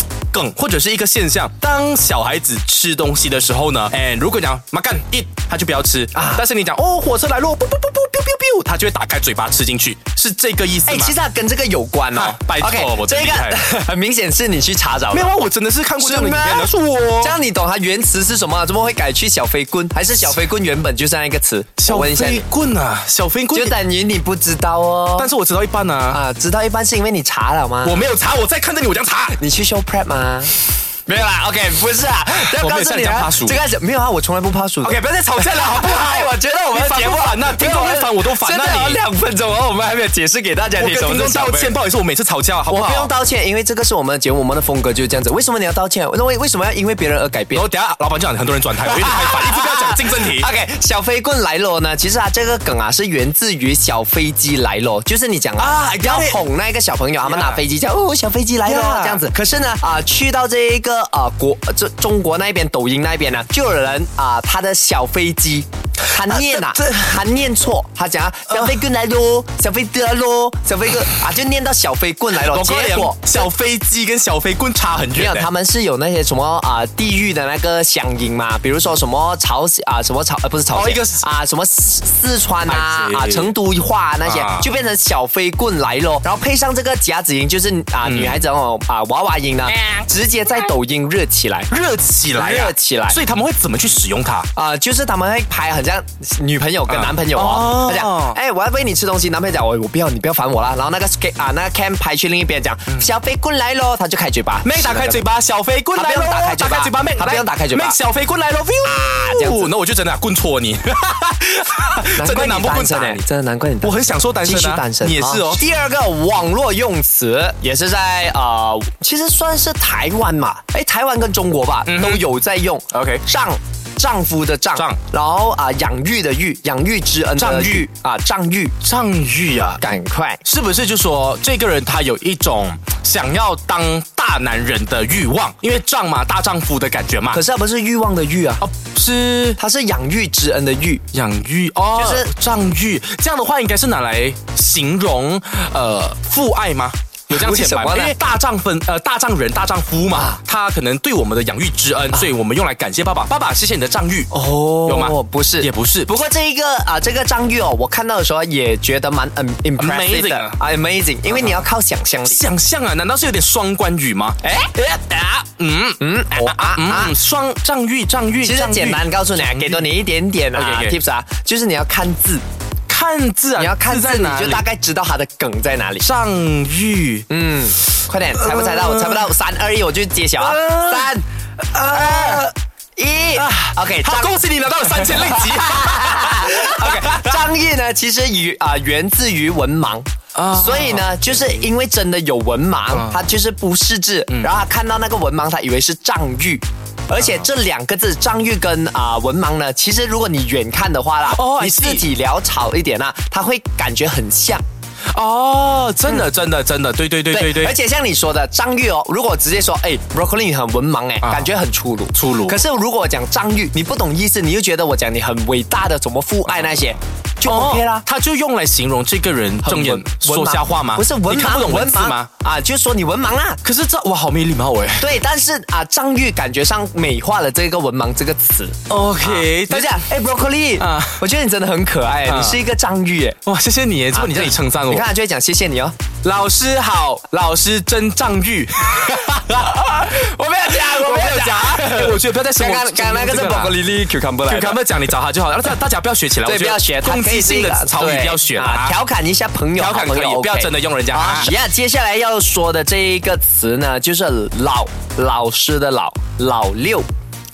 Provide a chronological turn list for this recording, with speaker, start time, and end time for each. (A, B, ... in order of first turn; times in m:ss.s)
0:00.3-0:11.1 A
0:06.1-0:06.4 B
0:10.9-0:15.3 B
0:12.1-0:13.7 A
0:15.1-0:17.4 A
0:16.0-0:22.4 B
0:21.8-0:23.7 A
0:23.5-0:25.3 B
0:25.2-0:26.2 A
0:26.1-0:28.1 B
0:27.8-0:29.4 A
0:29.3-0:41.7 B
0:32.3-0:33.6 A
0:34.8-0:39.0 A
0:40.8-0:43.1 A
0:42.7-0:47.6 B
0:47.5-0:50.5 A
0:48.8-1:13.3 B
0:55.6-0:56.4 A
0:57.2-0:57.6 A
0:58.6-0:59.2 A
1:06.1-1:07.1 A
1:08.5-1:08.7 A
1:12.3-1:15.5 A
1:15.1-1:31.7 B
1:20.7-1:21.2 A
1:22.6-1:23.5 A
1:24.2-1:24.7 A
1:28.0-1:28.4 A
1:29.7-1:30.1 A
1:31.7-1:34.5 A
1:32.3-1:33.2 B
1:34.5-1:45.2 B
1:36.9-1:38.4 A
1:44.6-1:53.2 A
1:45.9-1:48.0 B
1:48.8-1:49.7 B
1:52.2-2:08.7 B
1:53.8-1:55.6 A
2:01.8-2:02.2 A
2:02.9-2:03.2 A
2:07.4-2:07.9 A
2:08.8-2:09.8 A
2:09.8-2:10.4 B
2:10.4-2:17.4 A
2:17.3-2:18.6 B
2:18.6-2:19.6 A
2:19.6-2:21.0 B
2:21.1-2:34.3 A
2:21.9-2:22.3 B
2:27.3-2:28.1 B
2:30.1-2:30.4 B
2:34.3-2:42.4 B
2:34.8-2:36.1 A
2:39.8-2:40.6 A
2:41.3-2:41.7 A
2:42.2-2:44.4 A
2:44.4-2:45.4 B
2:45.6-2:49.9 A
2:46.0-2:47.1 B
2:48.4-2:52.4 B
2:50.5-2:51.0 A
2:52.9-2:54.6 A
2:53.6-2:56.1 B
2:56.0-2:57.3 A
2:57.3-3:01.2 B
2:58.3-2:59.3 A
3:00.4-3:02.5 A
3:01.8-3:24.6 B
3:03.3-3:07.4 A
3:10.3-3:11.4 A
3:12.9-3:13.2 A
3:21.2-3:22.0 A
3:25.1-3:27.7 A
3:27.3-3:38.0 B
3:31.2-3:31.5 A
3:32.1-3:32.6 A
3:37.4-3:42.3 A
3:39.6-3:43.6 B
3:43.6-3:45.1 A
3:45.0-3:53.4 B
3:48.9-3:50.0 A
3:50.8-3:51.2 A
3:52.2-3:52.6 A
3:53.4-3:55.0 A
3:54.1-3:55.9 B
3:56.2-4:03.8 A
3:59.9-4:04.8 B
4:04.4-4:09.0 A
4:06.4-4:17.1 B
4:09.8-4:11.5 A